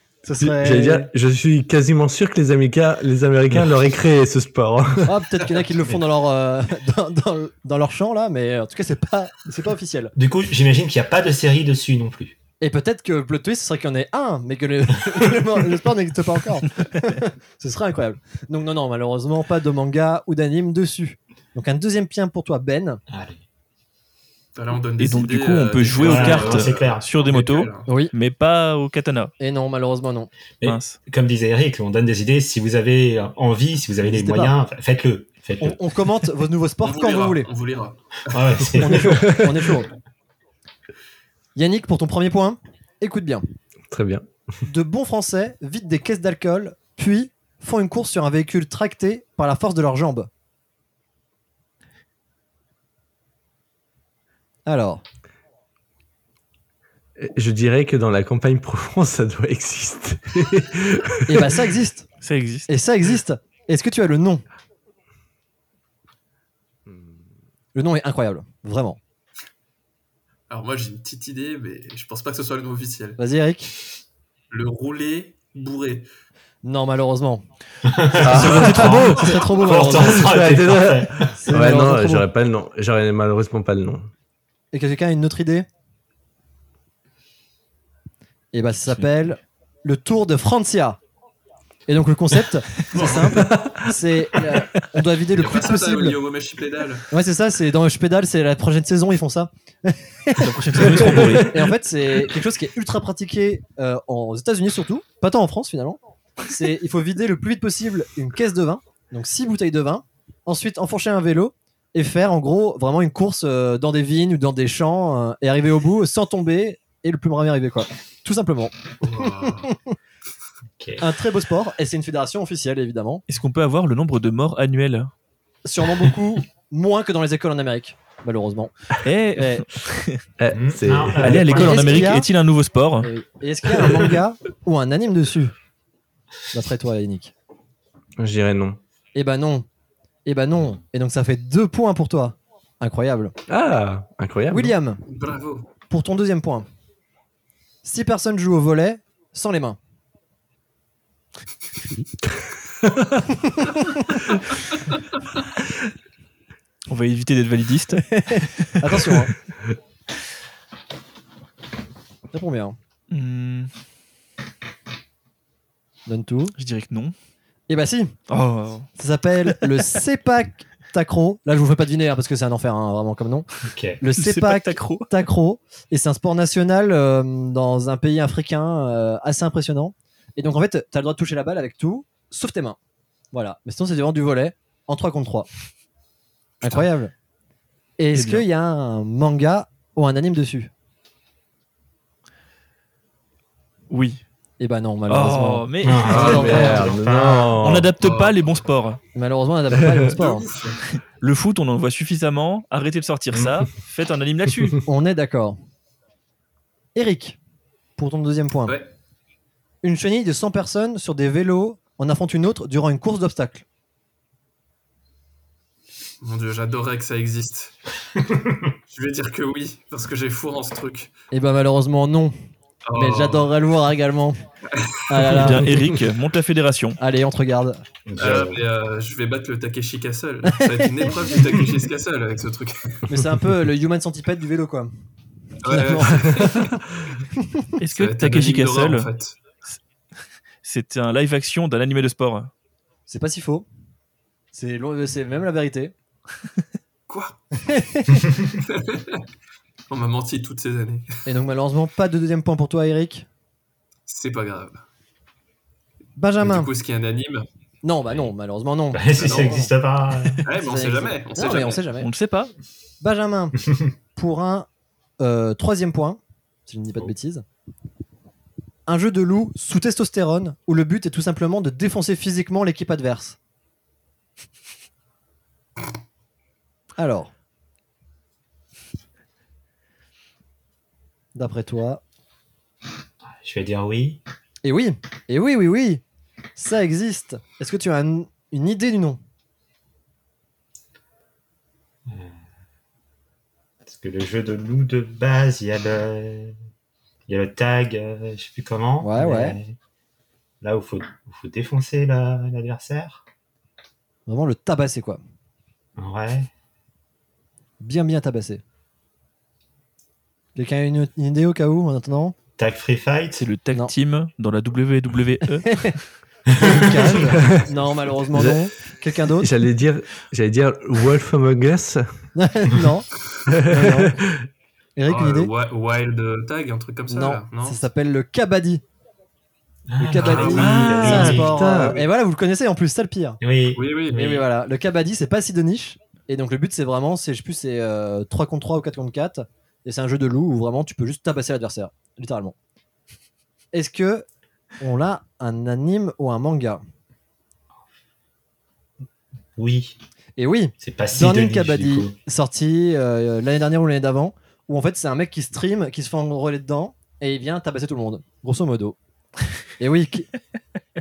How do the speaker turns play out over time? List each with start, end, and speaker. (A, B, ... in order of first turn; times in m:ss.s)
0:00.2-0:01.1 A
0:00.4-0:05.1 B
0:05.0-0:10.1 A
0:10.2-0:12.4 C
0:12.6-0:23.0 A
0:23.1-0:23.4 C
0:24.6-0:27.9 D
0:25.0-0:29.3 E
0:26.0-0:27.1 C
0:27.9-0:28.1 A
0:29.4-0:30.3 A
0:30.6-0:35.8 C
0:30.6-0:31.0 E
0:34.0-0:34.6 A
0:35.6-0:37.5 A
0:36.8-0:38.7 D
0:38.3-0:39.4 C
0:38.8-0:39.9 A
0:41.6-0:43.5 A
0:43.9-0:44.3 B
0:44.7-0:50.3 A
0:54.7-0:55.0 A
0:57.2-1:01.5 B
1:01.3-1:02.1 A
1:02.2-1:02.7 E
1:02.7-1:04.4 A
1:06.9-1:07.2 B
1:07.8-1:09.0 A
1:10.5-1:13.2 D
1:13.2-1:13.7 A
1:14.5-1:16.1 D
1:16.6-1:17.4 A
1:17.8-1:21.3 C
1:18.2-1:20.3 A
1:18.2-1:24.1 B
1:21.4-1:22.3 A
1:24.7-1:25.7 A
1:28.5-1:31.0 A
1:31.9-1:36.2 A
1:33.0-1:33.3 D
1:33.4-1:34.0 B
1:35.3-1:37.1 D
1:37.1-1:59.8 A
1:40.4-1:41.7 E
1:59.0-1:59.7 D
2:01.0-2:03.2 A
2:03.3-2:05.1 E
2:05.6-2:08.7 A
2:09.0-2:10.2 E
2:09.4-2:09.6 A
2:10.4-2:11.9 B
2:10.5-2:12.0 C
2:11.2-2:13.1 E
2:11.4-2:12.3 A
2:13.0-2:15.5 A
2:16.5-2:17.3 A
2:18.2-2:18.8 B
2:19.2-2:19.7 A
2:20.2-2:23.4 A
2:23.5-2:24.8 B
2:24.5-2:25.0 A
2:25.1-2:25.7 D
2:25.9-2:26.7 A
2:27.8-2:29.8 A
2:32.4-2:33.2 B
2:33.8-2:34.1 A
2:36.9-2:39.2 E
2:38.1-2:39.3 A
2:42.3-2:42.8 A
2:43.1-2:43.7 E
2:46.1-2:46.5 A
2:46.6-2:47.1 E
2:47.7-2:48.2 A
2:48.3-2:48.9 E
2:49.0-2:53.5 A
2:53.6-2:54.0 C
2:54.0-3:02.8 A
2:54.2-2:55.2 E
3:03.3-3:05.5 A
3:06.6-3:07.1 A
3:08.0-3:10.7 A
3:08.1-3:08.4 E
3:13.9-3:14.2 E
3:14.6-3:17.0 A
3:15.1-3:16.4 E
3:15.8-3:17.8 C
3:16.0-3:17.9 B
3:16.1-3:16.6 D
3:17.6-3:19.0 E
3:18.0-3:18.4 D
3:19.2-3:20.5 A
3:20.1-3:20.8 D
3:20.9-3:24.8 E
3:24.9-3:25.6 A
3:27.0-3:27.4 A
3:28.0-3:28.8 A
3:29.8-3:33.6 A
3:36.2-3:37.8 D
3:38.3-3:38.7 C
3:38.9-3:41.1 D
3:41.3-3:42.3 A
3:42.9-3:43.5 D
3:42.9-3:44.4 A
3:44.7-3:45.2 D
3:45.1-3:46.0 A
3:45.2-3:47.0 E
3:47.0-3:47.8 A
3:48.1-3:48.6 C
3:48.2-3:53.1 D
3:53.1-3:54.9 A
3:55.6-3:56.8 D
3:55.7-3:56.7 A
3:57.4-3:57.7 A
3:57.8-3:59.1 E
3:57.9-3:59.4 D
4:00.6-4:02.5 E
4:03.1-4:03.7 A
4:04.5-4:05.9 A
4:07.1-4:07.4 D
4:07.6-4:08.3 A
4:08.6-4:09.2 D
4:09.9-4:11.2 D
4:11.3-4:13.3 A
4:14.1-4:14.8 D
4:16.2-4:16.7 A
4:16.4-4:17.5 D
4:17.8-4:19.7 A
4:18.9-4:20.4 C
4:19.2-4:19.5 D
4:20.4-4:21.8 D
4:20.5-4:22.1 A
4:22.0-4:22.5 E
4:23.0-4:23.6 A
4:24.2-4:24.7 A
4:25.2-4:27.4 A
4:28.9-4:33.4 A
4:37.0-4:37.3 A
4:41.4-4:42.0 A
4:43.3-4:44.2 C
4:44.6-4:46.0 A
4:46.6-4:49.2 A
4:52.1-4:52.4 C
4:53.9-4:56.6 C
4:57.3-4:59.8 C
4:59.0-4:59.6 A
5:00.6-5:03.2 C
5:04.3-5:05.2 A
5:06.0-5:06.5 C
5:07.8-5:08.6 A
5:10.6-5:12.4 A
5:12.6-5:13.4 C
5:13.3-5:16.0 E
5:15.7-5:16.0 A
5:16.5-5:17.3 C
5:16.6-5:19.5 A
5:18.3-5:18.7 B
5:19.4-5:22.2 B
5:22.4-5:23.1 A
5:23.5-5:24.5 B
5:23.6-5:24.2 A
5:25.0-5:25.5 A
5:25.1-5:27.8 D
5:27.1-5:28.8 A
5:29.9-5:31.9 C
5:30.0-5:33.4 A
5:30.2-5:30.8 D
5:30.5-5:32.0 B
5:33.4-5:33.8 C
5:33.8-5:34.5 D
5:34.1-5:42.6 A
5:43.7-5:44.3 A
5:44.8-5:46.8 A
5:49.6-5:50.0 C
5:50.4-5:59.0 A
5:50.8-5:52.1 C
5:59.8-6:00.3 A